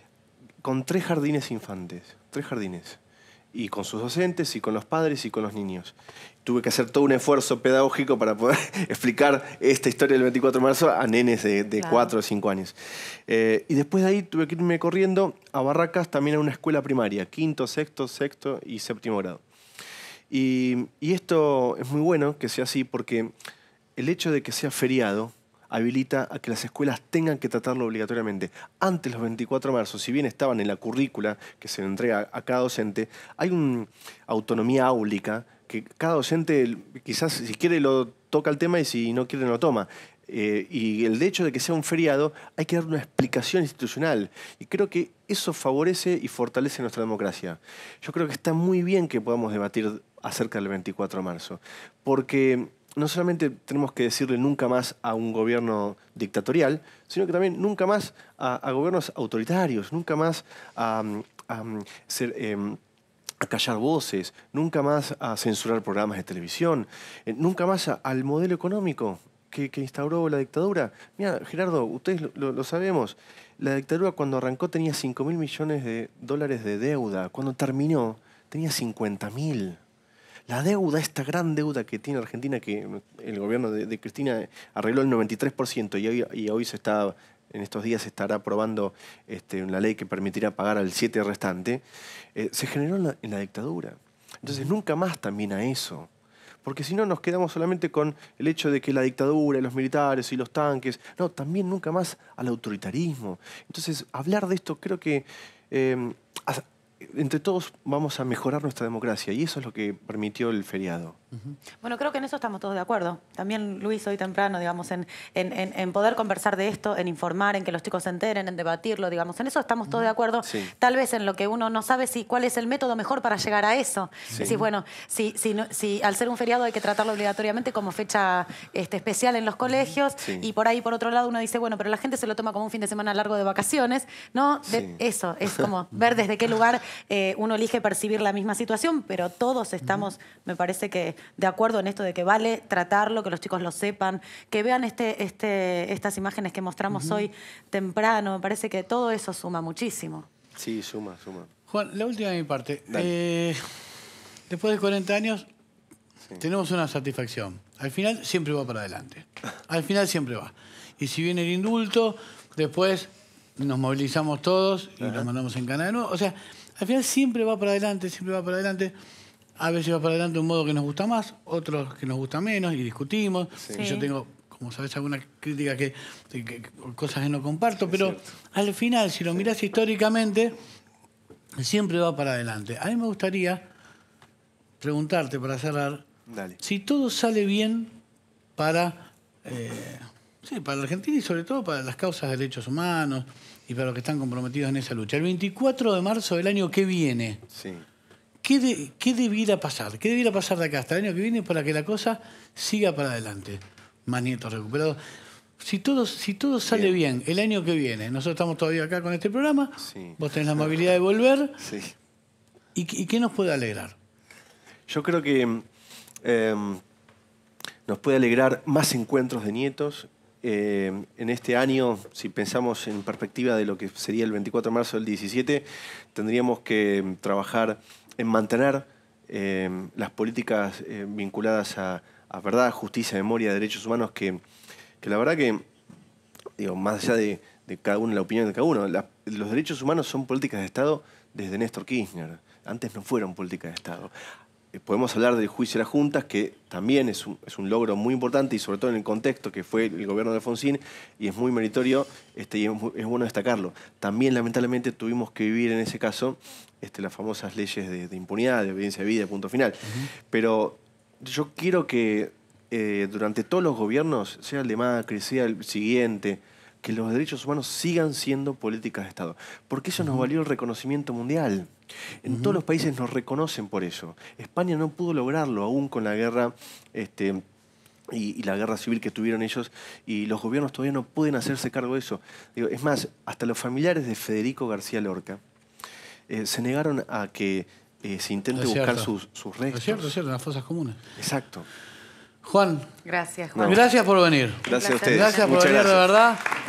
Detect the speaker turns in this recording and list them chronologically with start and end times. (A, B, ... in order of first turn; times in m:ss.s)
0:00.6-0:03.0 A
0:03.5-0:12.8 A
0:11.8-0:12.1 B
0:13.3-0:19.4 A
0:20.3-0:23.3 A
0:24.0-1:02.8 A
1:03.4-1:19.8 A
1:20.5-1:31.8 A
1:32.4-1:36.1 A
1:36.6-1:51.2 A
1:51.8-2:30.3 B
2:00.4-2:00.7 A
2:04.3-2:04.6 C
2:04.3-2:04.6 A
2:10.2-2:10.5 A
2:14.7-2:15.0 A
2:19.8-2:20.1 C
2:26.9-2:27.2 C
2:30.6-2:31.5 A
2:31.7-2:35.5 C
2:36.4-2:48.9 C
2:45.0-2:45.3 A
2:49.6-3:00.6 C
2:53.6-2:53.8 A
2:53.7-2:54.1 B
2:57.8-2:58.4 A
3:01.6-3:03.7 C
3:04.8-3:06.1 C
3:06.3-3:06.6 A
3:06.6-3:08.0 C
3:08.6-3:17.4 C
3:17.5-3:17.8 A
3:18.4-3:25.0 C
3:25.6-3:31.6 C
3:26.7-3:27.0 A
3:29.8-3:30.7 A
3:31.6-3:32.0 A
3:32.8-3:34.0 C
3:34.9-3:35.6 A
3:36.2-3:36.8 A
3:37.9-3:54.4 A
3:55.0-3:55.7 A
3:56.6-4:04.1 A
4:04.7-4:31.7 A
4:19.9-4:20.1 C
4:30.0-4:30.3 C
4:32.2-4:37.4 A
4:32.3-4:32.6 C
4:38.1-4:45.4 A
4:46.3-4:50.1 A
4:48.6-4:49.1 C
4:49.7-4:51.0 C
4:51.2-4:51.7 A
4:52.4-4:52.9 C
4:53.0-4:53.8 B
4:53.5-4:53.8 A
4:53.6-4:56.4 C
4:54.7-4:55.7 B
4:54.7-4:56.1 A